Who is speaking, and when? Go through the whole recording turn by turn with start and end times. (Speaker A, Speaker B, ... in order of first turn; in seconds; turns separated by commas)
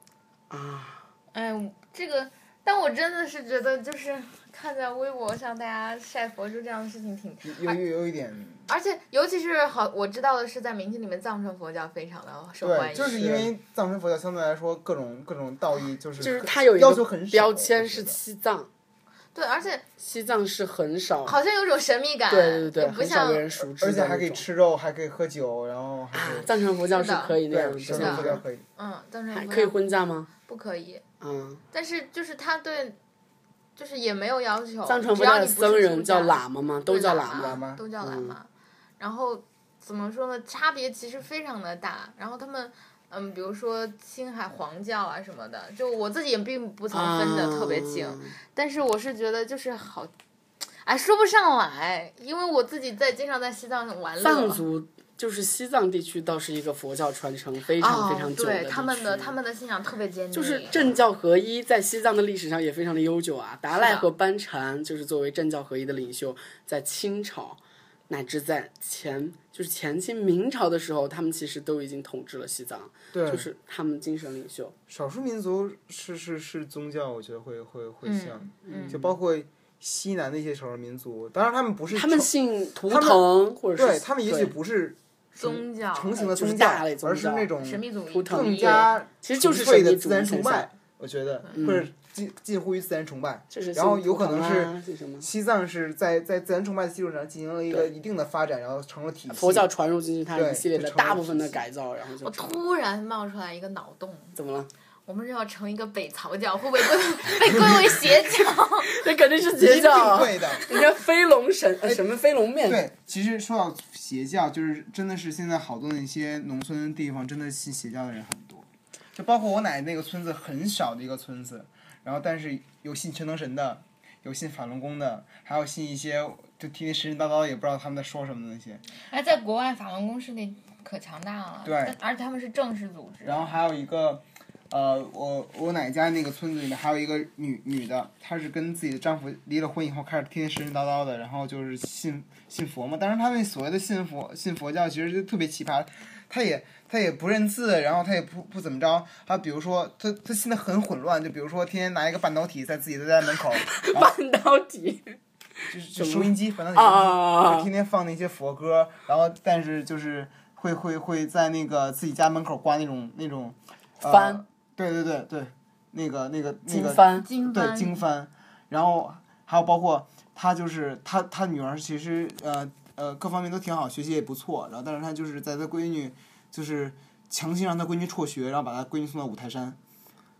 Speaker A: 0.5-1.0, Speaker B: 1.3-7.8, Speaker C: 7.4-8.6, Speaker B: 8.7-13.4, Speaker C: 12.6-18.2, Speaker A: 13.0-13.5, Speaker A: 16.2-18.7, Speaker B: 19.3-19.9, Speaker A: 20.0-21.4, Speaker B: 21.2-23.5, Speaker A: 22.3-24.4, Speaker C: 23.6-26.5, Speaker A: 26.1-28.4, Speaker B: 26.9-27.4, Speaker C: 27.5-28.6, Speaker B: 27.9-29.8, Speaker A: 29.3-30.3, Speaker B: 30.4-31.0, Speaker A: 31.2-31.6, Speaker B: 31.7-33.0, Speaker B: 33.8-50.1, Speaker A: 34.9-38.4, Speaker C: 37.4-37.8, Speaker A: 46.9-48.3, Speaker B: 50.8-54.6, Speaker A: 54.2-59.4, Speaker B: 57.8-60.8, Speaker A: 60.3-74.7, Speaker B: 63.7-64.0, Speaker C: 73.1-73.5, Speaker C: 74.9-82.3, Speaker B: 78.0-79.0, Speaker A: 78.7-79.1, Speaker A: 81.9-84.5, Speaker C: 82.8-83.2, Speaker C: 83.8-99.7, Speaker B: 85.4-86.2, Speaker A: 86.1-87.6, Speaker B: 87.6-88.9, Speaker A: 88.1-90.7, Speaker A: 91.5-91.9, Speaker A: 93.5-95.3, Speaker A: 99.3-102.6, Speaker C: 100.3-101.7, Speaker B: 102.2-104.3, Speaker A: 104.3-104.7, Speaker B: 105.1-109.0, Speaker A: 108.0-108.3, Speaker A: 108.8-112.8, Speaker C: 109.5-110.7, Speaker C: 112.7-128.8, Speaker B: 129.1-133.5, Speaker C: 131.6-131.9, Speaker C: 133.2-154.2, Speaker A: 153.7-155.2, Speaker C: 155.7-179.8, Speaker A: 155.9-157.7, Speaker A: 164.0-164.4, Speaker A: 166.7-167.3, Speaker B: 167.1-168.0